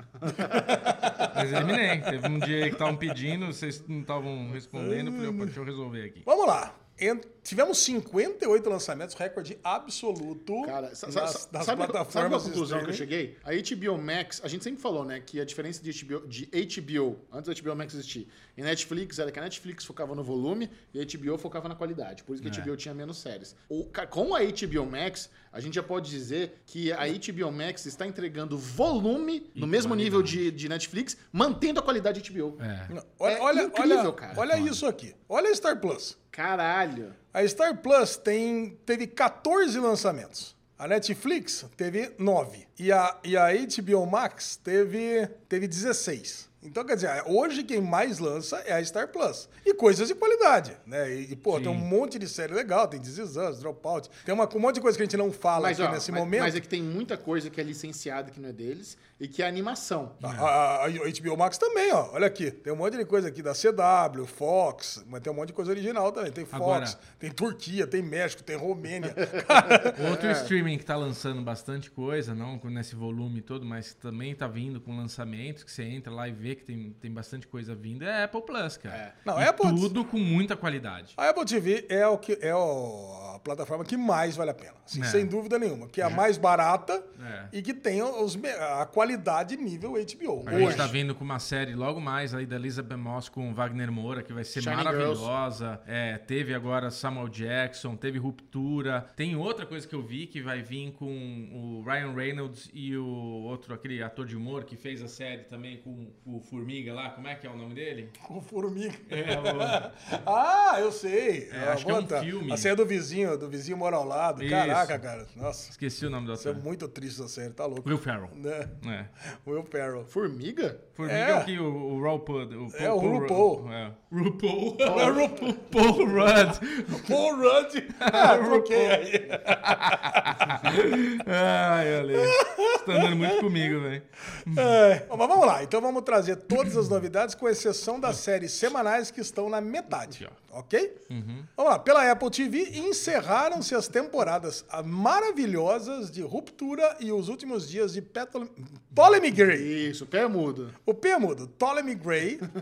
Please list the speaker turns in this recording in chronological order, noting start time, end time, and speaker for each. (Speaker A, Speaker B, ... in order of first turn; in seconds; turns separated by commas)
Speaker A: 0.2-0.7, Speaker B: 0.4-1.4, Speaker C: 1.2-6.3, Speaker B: 4.7-5.5, Speaker B: 6.3-13.1, Speaker A: 10.6-32.6, Speaker C: 22.4-22.7, Speaker C: 29.6-30.4, Speaker C: 32.6-32.9, Speaker B: 32.9-36.2, Speaker A: 33.2-34.4, Speaker C: 34.4-34.8, Speaker A: 36.3-37.2, Speaker B: 37.3-56.6, Speaker C: 51.5-51.9, Speaker A: 55.6-60.2, Speaker C: 60.2-60.5, Speaker B: 60.2-70.0, Speaker C: 66.5-67.0, Speaker C: 69.9-81.2, Speaker A: 70.0-70.5, Speaker A: 78.9-79.2, Speaker B: 79.2-79.9, Speaker B: 81.2-90.9, Speaker C: 85.0-85.3, Speaker C: 87.2-87.5, Speaker C: 90.5-108.2, Speaker A: 90.5-90.9, Speaker A: 94.5-95.3, Speaker B: 108.2-115.8, Speaker C: 109.1-109.9, Speaker C: 111.5-112.7, Speaker C: 114.4-115.0, Speaker C: 115.7-116.6, Speaker B: 116.4-120.1, Speaker C: 117.8-119.1, Speaker A: 120.1-120.9, Speaker C: 121.0-127.2, Speaker B: 121.0-121.5, Speaker B: 122.7-123.7, Speaker B: 124.8-126.0, Speaker B: 126.9-130.8, Speaker C: 128.0-134.8, Speaker B: 132.1-133.7, Speaker B: 134.5-141.0, Speaker C: 141.1-141.5, Speaker B: 141.6-149.7, Speaker A: 149.4-150.8, Speaker B: 150.8-152.5